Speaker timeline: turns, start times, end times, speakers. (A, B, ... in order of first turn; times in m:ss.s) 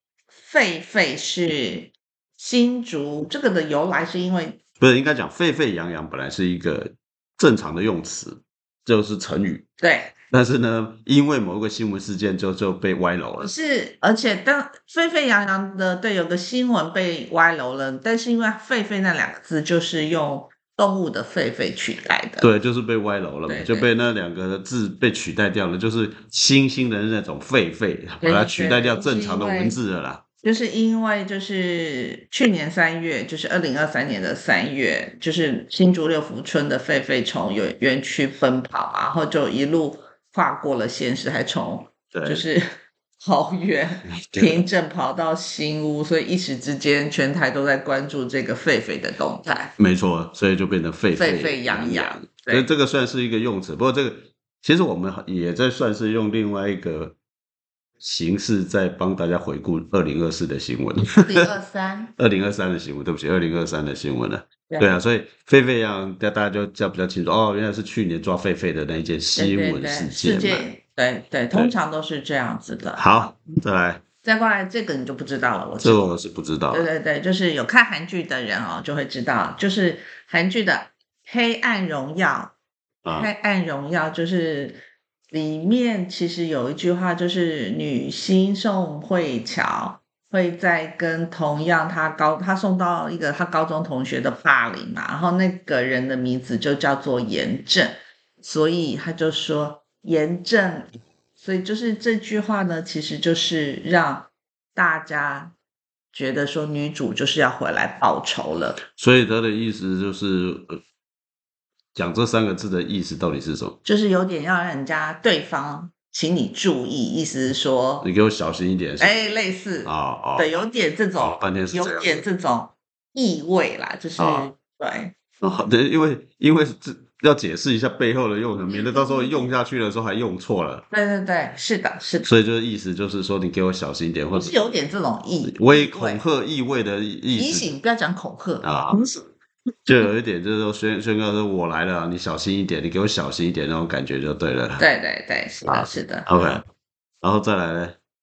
0:00.4-0:04.6 A
0:04.8-0:09.6 B
0:09.8-0:10.2 A
0:10.3-0:13.5 B
0:13.4-0:22.5 A
0:22.4-0:30.2 B
0:23.5-0:23.9 A
0:28.2-0:29.8 A
0:30.4-0:42.6 A
0:42.1-0:42.5 B
0:43.2-0:49.7 A
0:44.2-0:44.6 B
0:49.8-0:57.2 B
0:51.1-0:52.7 A
0:58.0-1:01.5 B
1:01.0-1:02.1 A
1:02.2-1:10.6 B
1:04.7-1:05.0 A
1:09.4-1:13.1 A
1:13.0-1:14.0 B
1:14.2-1:16.2 A
1:15.8-1:16.9 B
1:16.7-1:22.5 A
1:23.0-1:23.3 B
1:23.2-1:45.5 A
1:46.1-1:48.8 A
1:48.9-1:50.8 B
1:52.0-1:53.8 B
1:53.8-1:58.1 A
1:58.0-1:59.2 B
1:59.0-2:05.1 A
1:59.8-2:00.6 B
2:01.2-2:02.2 B
2:04.2-2:04.5 B
2:05.4-2:10.9 B
2:08.7-2:09.6 A
2:10.9-2:12.3 A
2:12.2-2:14.7 B
2:14.3-2:16.2 A
2:15.4-2:17.7 B
2:17.3-2:19.3 A
2:18.6-2:19.0 B
2:19.9-2:24.8 B
2:24.8-2:26.3 A
2:25.6-2:26.6 B
2:27.2-2:28.0 B